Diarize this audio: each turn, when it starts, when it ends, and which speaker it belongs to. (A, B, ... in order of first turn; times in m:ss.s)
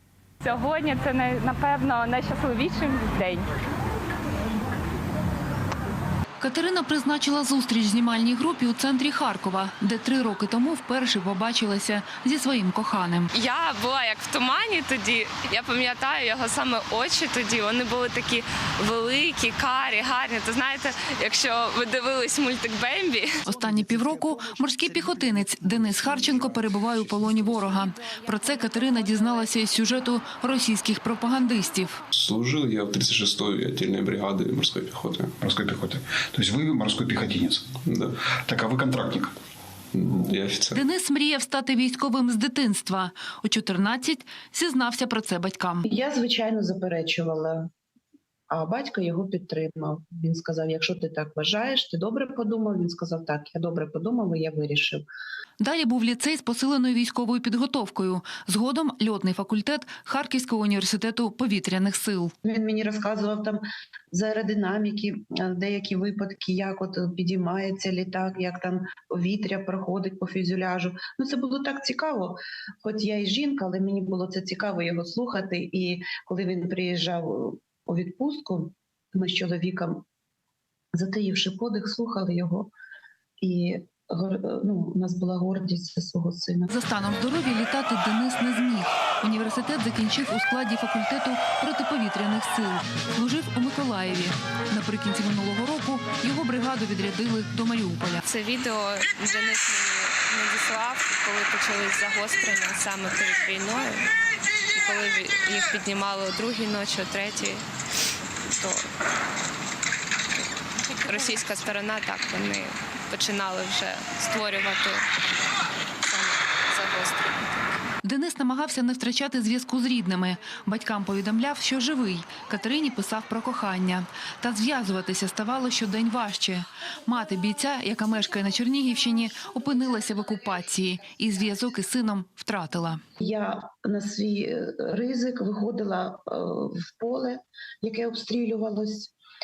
0:00.4-0:03.4 A
0:06.4-0:13.3 B
0:13.3-0:23.4 C
0:23.4-0:32.0 B
0:32.1-0:35.4 D
0:35.4-0:37.8 E
0:37.8-0:38.1 D
0:38.3-0:39.3 E
0:39.9-0:40.8 D
0:40.7-0:45.8 B
0:45.8-0:47.7 F
0:48.5-0:55.0 F
0:55.6-1:02.3 B
1:02.4-1:20.0 F
1:20.9-1:22.7 F
1:23.4-1:26.7 F
1:26.7-1:38.2 B
1:38.2-1:44.1 C
1:44.7-1:47.6 C
1:48.5-1:48.9 C
1:50.9-1:55.1 C
1:56.0-1:57.5 C
1:58.0-2:13.0 B
2:13.2-2:19.1 F